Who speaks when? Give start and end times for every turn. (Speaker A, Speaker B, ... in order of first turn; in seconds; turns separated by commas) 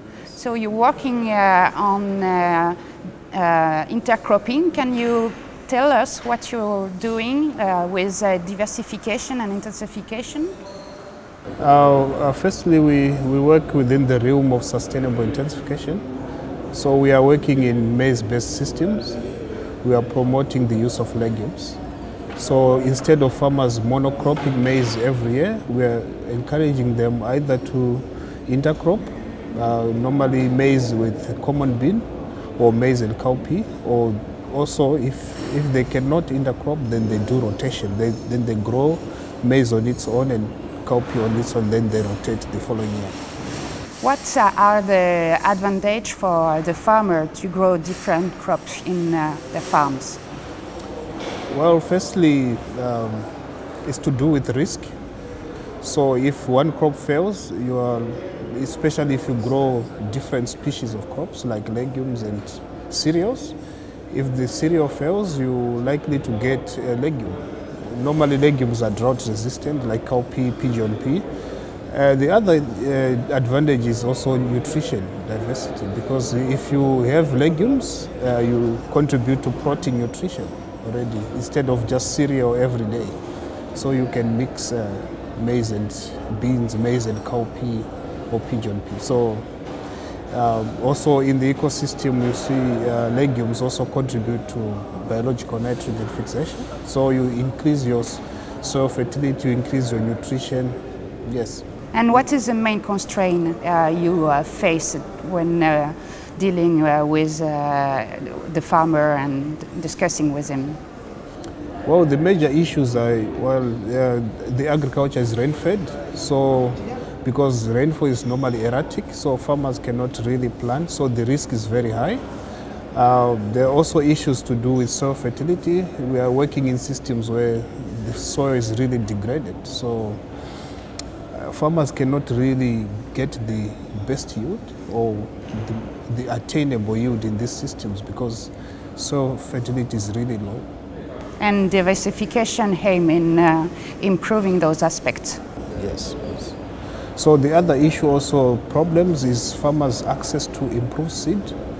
Speaker A: 0.3-2.8, Speaker A: 3.3-10.5, Speaker B: 11.6-16.1, Speaker B: 16.7-19.2, Speaker B: 19.8-21.8, Speaker B: 22.4-32.1, Speaker B: 32.6-43.2, Speaker A: 44.0-50.2, Speaker B: 51.5-53.3, Speaker B: 53.9-54.9, Speaker B: 55.8-63.6, Speaker B: 64.1-71.2, Speaker B: 71.9-83.2, Speaker B: 83.7-89.5, Speaker B: 90.3-101.7, Speaker A: 101.9-110.8, Speaker B: 111.8-122.2, Speaker B: 122.9-130.2, Speaker B: 131.3-140.7, Speaker A: 141.4-145.4, Speaker B: 145.8-146.6, Speaker B: 147.2-151.6